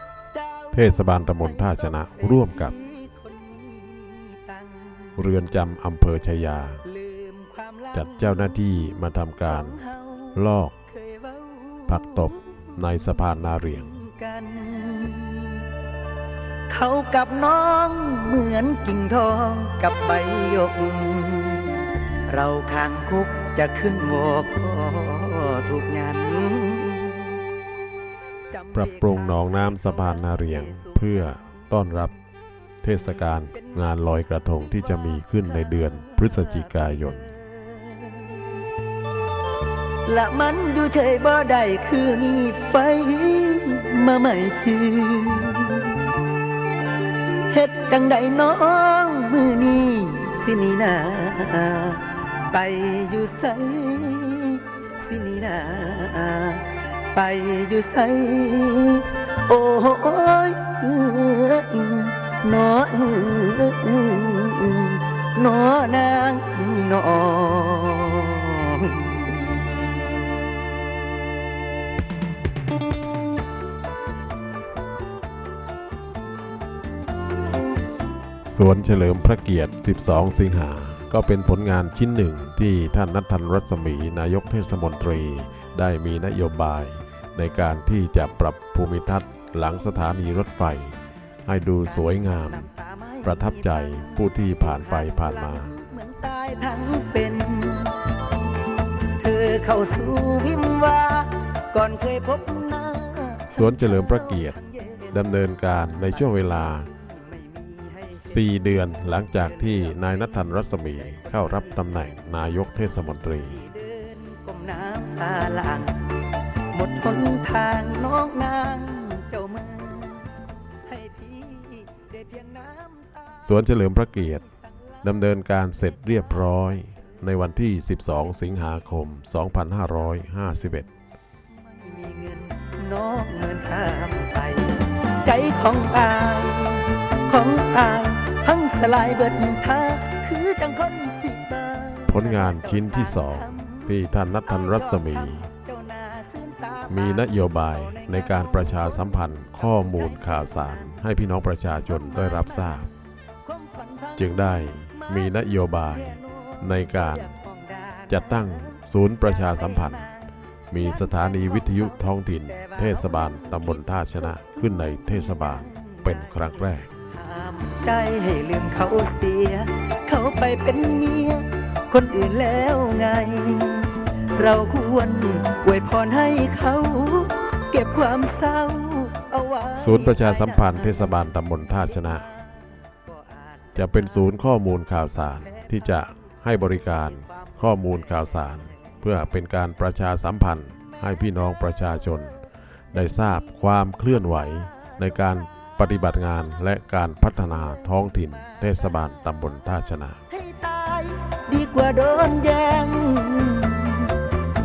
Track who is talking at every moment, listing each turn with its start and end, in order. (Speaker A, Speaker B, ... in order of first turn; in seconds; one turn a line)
Speaker A: 0.4-5.2
Speaker B: 0.7-2.7
Speaker B: 5.2-6.8
Speaker A: 6.8-8.6
Speaker B: 7.9-9.8
Speaker A: 9.4-15.7
Speaker B: 10.3-10.7
Speaker B: 11.9-13.9
Speaker A: 16.7-27.4
Speaker A: 28.5-31.5
Speaker B: 28.7-32.1
Speaker B: 32.8-37.2
Speaker A: 33.5-38.4
Speaker A: 40.0-46.1
Speaker A: 47.5-69.4
Speaker B: 78.5-90.9
Speaker B: 91.4-92.7
Speaker A: 91.9-98.0
Speaker B: 93.2-95.7
Speaker A: 99.2-108.6
Speaker B: 103.5-104.6
Speaker B: 105.1-106.9
Speaker B: 108.2-113.6
Speaker A: 109.1-112.4
Speaker A: 113.5-116.1
Speaker A: 116.7-120.3
Speaker A: 120.8-123.4
Speaker B: 123.4-124.4
Speaker A: 124.2-124.9
Speaker B: 125.0-130.9
Speaker A: 126.1-127.2
Speaker A: 131.7-151.1
Speaker B: 142.1-145.5
Speaker B: 146.9-152.9
Speaker A: 151.7-152.8
Speaker A: 153.4-158.7
Speaker B: 154.2-157.3
Speaker B: 158.1-160.0
Speaker A: 159.2-184.4
Speaker B: 160.7-166.9
Speaker B: 179.8-182.2
Speaker B: 183.7-192.3
Speaker A: 185.3-188.9
Speaker B: 192.9-200.2
Speaker A: 200.3-204.2